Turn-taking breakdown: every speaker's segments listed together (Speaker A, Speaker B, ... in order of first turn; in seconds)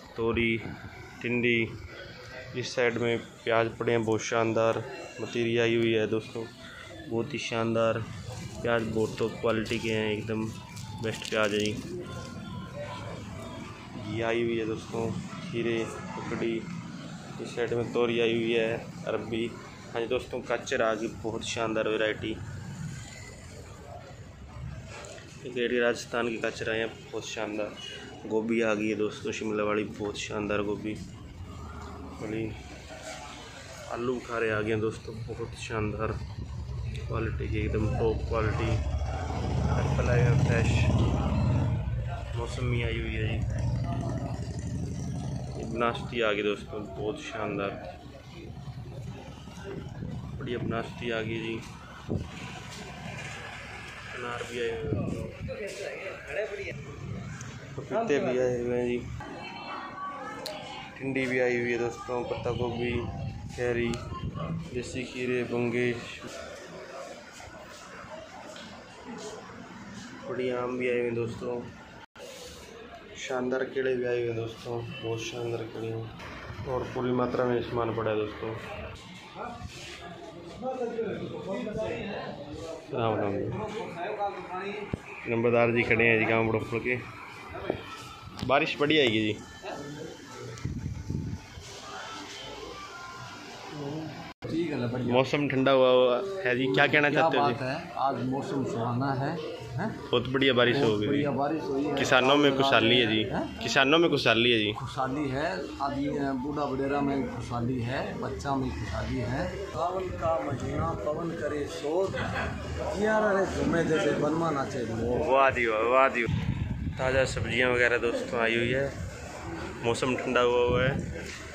Speaker A: 0.1-0.7, 1.2-1.8, 2.5-6.5, 7.1-8.0, 8.6-11.8, 13.9-16.7, 17.4-22.4, 25.4-31.0, 32.2-32.6, 33.9-36.2, 37.1-38.8, 39.7-41.0, 42.3-43.5, 45.5-47.9, 50.4-51.6, 54.1-55.4, 57.8-59.1, 61.0-64.0, 64.7-66.3, 70.2-71.7, 73.2-76.1, 76.7-78.6, 82.9-83.6, 85.2-87.0, 88.4-89.4, 95.1-97.6, 100.1-101.3, 102.0-104.8, 115.2-116.4, 117.0-119.0, 119.8-121.1
Speaker B: 84.0-84.6, 94.3-95.3, 96.6-100.0, 100.7-103.6, 104.8-115.3